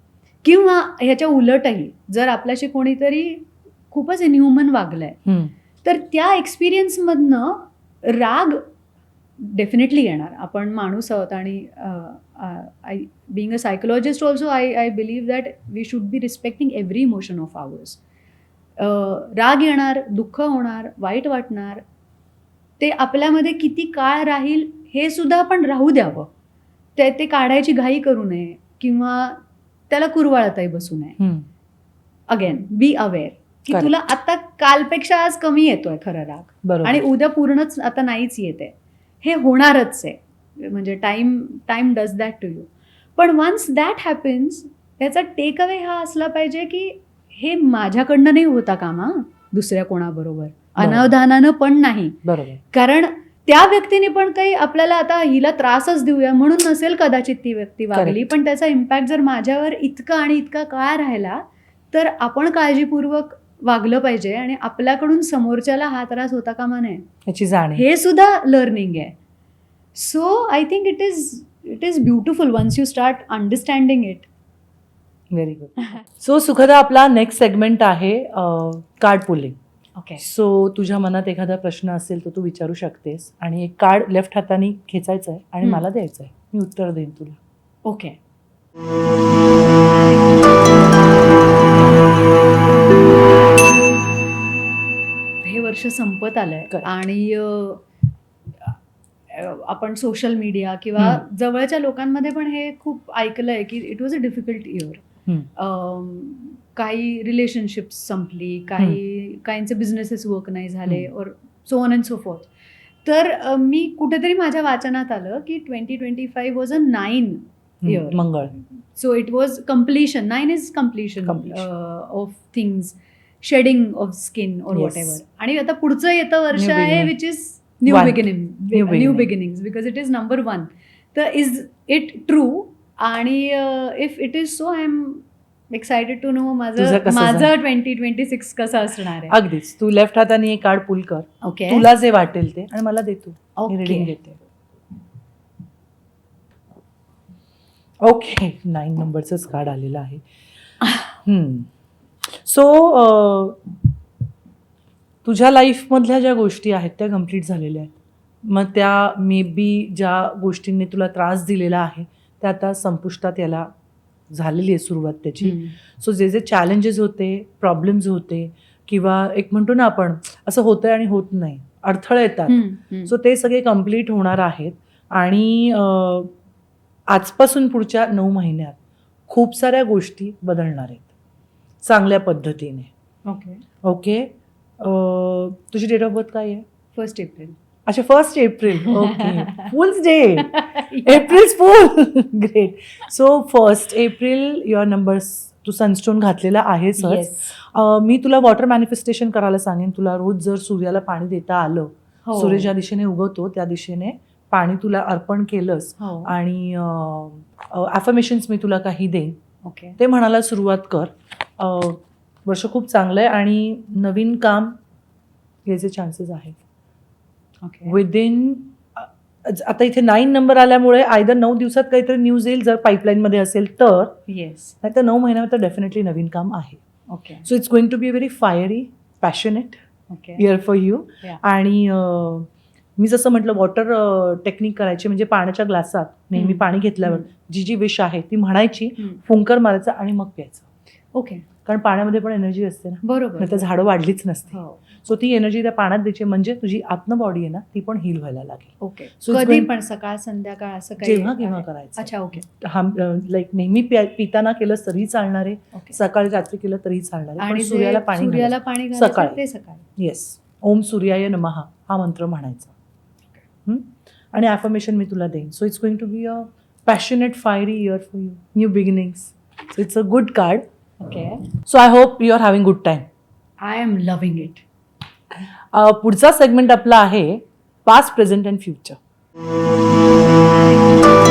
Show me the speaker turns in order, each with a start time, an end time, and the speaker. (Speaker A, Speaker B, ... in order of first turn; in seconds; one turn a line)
Speaker A: 0.4-5.2
Speaker B: 5.3-5.5
Speaker A: 5.8-8.7
Speaker A: 9.4-18.0
Speaker A: 18.8-21.8
Speaker A: 22.8-26.3
Speaker A: 27.0-29.4
Speaker A: 29.9-31.2
Speaker B: 31.2-31.5
Speaker A: 32.3-52.2
Speaker B: 36.6-37.0
Speaker B: 50.8-51.1
Speaker B: 52.2-52.6
Speaker A: 52.7-67.1
Speaker B: 57.9-58.3
Speaker B: 67.3-67.8
Speaker A: 67.8-69.2
Speaker A: 70.0-74.3
Speaker B: 75.3-79.6
Speaker A: 80.0-80.2
Speaker B: 80.2-87.4
Speaker A: 87.9-88.2
Speaker A: 95.4-97.8
Speaker A: 99.3-105.0
Speaker A: 105.6-112.5
Speaker A: 113.0-118.2
Speaker B: 117.8-118.6
Speaker A: 119.0-139.4
Speaker B: 121.3-121.7
Speaker B: 124.7-125.2
Speaker B: 126.5-127.1
Speaker B: 127.9-129.3
Speaker B: 136.8-137.5
Speaker B: 139.3-144.4
Speaker A: 141.4-141.8
Speaker A: 143.6-144.1
Speaker B: 148.0-150.2
Speaker B: 151.2-151.7
Speaker B: 152.3-153.6
Speaker B: 155.2-163.7
Speaker B: 164.3-176.3
Speaker A: 165.4-165.8
Speaker A: 172.5-173.1
Speaker B: 177.1-178.8
Speaker B: 179.3-181.1
Speaker B: 181.8-182.9
Speaker A: 183.2-183.6
Speaker B: 183.8-186.7
Speaker A: 187.0-187.6
Speaker B: 187.9-209.4
Speaker A: 188.8-189.7
Speaker A: 190.4-191.4
Speaker A: 197.0-197.6
Speaker A: 202.2-202.7
Speaker A: 206.0-206.3
Speaker A: 209.6-210.0
Speaker B: 210.0-214.8
Speaker B: 215.7-216.6
Speaker A: 217.6-218.0
Speaker B: 217.9-224.2
Speaker A: 224.3-224.8
Speaker B: 224.8-226.8
Speaker A: 227.1-227.5
Speaker B: 227.4-229.8
Speaker A: 230.1-230.5
Speaker B: 230.4-240.7
Speaker A: 236.3-237.3
Speaker A: 241.1-241.5
Speaker B: 241.7-249.7
Speaker A: 243.0-243.7
Speaker A: 244.5-244.8
Speaker A: 248.8-252.4
Speaker B: 251.0-259.4
Speaker A: 255.7-256.0
Speaker A: 257.4-259.9
Speaker B: 260.0-262.7
Speaker B: 263.7-270.6
Speaker A: 271.0-271.4
Speaker B: 271.6-273.1
Speaker A: 273.6-274.6
Speaker B: 275.7-279.0